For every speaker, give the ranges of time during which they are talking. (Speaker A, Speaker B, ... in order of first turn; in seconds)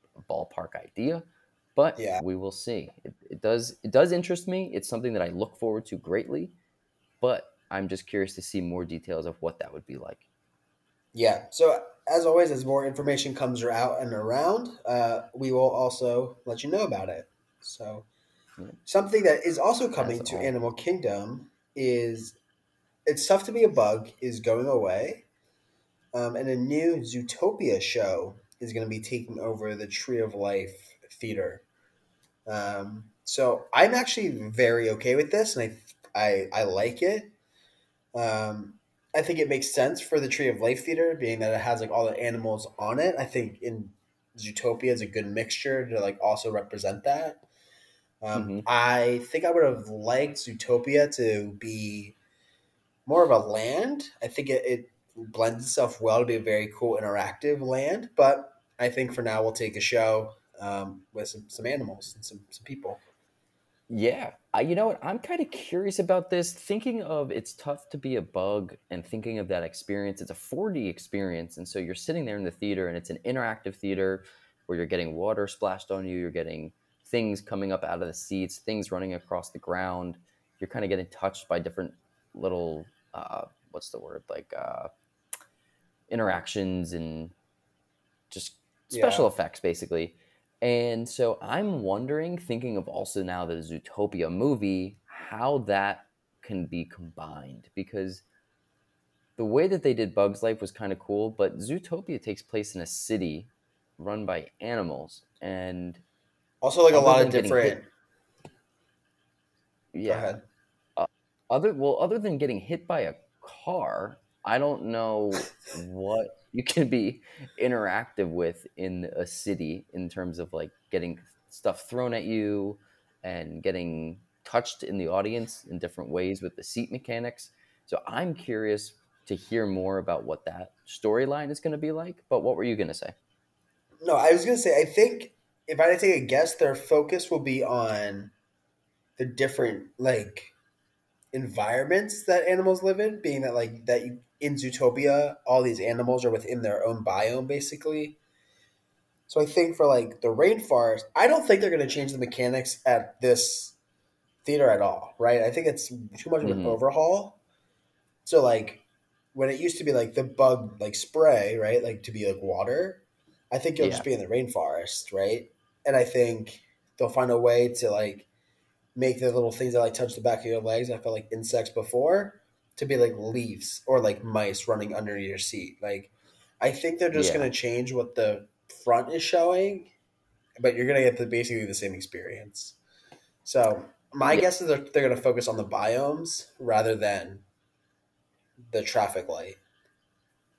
Speaker A: 0.2-6.5, 7.2-10.2, 20.0-20.5, 48.3-48.7, 63.9-84.9, 86.1-87.3, 88.3-98.2, 99.4-106.0, 106.9-107.8, 109.9-110.3, 111.0-133.2, 156.4-156.8, 163.8-164.1, 177.1-177.5
Speaker B: 2.0-2.2, 11.1-18.1, 18.9-22.4, 23.1-25.3, 26.1-31.6, 32.5-37.3, 38.1-47.4, 48.2-52.2, 53.1-63.0, 88.9-89.3, 106.6-107.9, 110.1-110.4, 134.0-138.3, 139.2-140.5, 141.3-148.2, 149.3-153.8, 154.4-157.4, 158.2-158.8, 159.3-168.3, 168.9-179.9, 180.6-182.8, 183.4-187.4, 188.7-189.6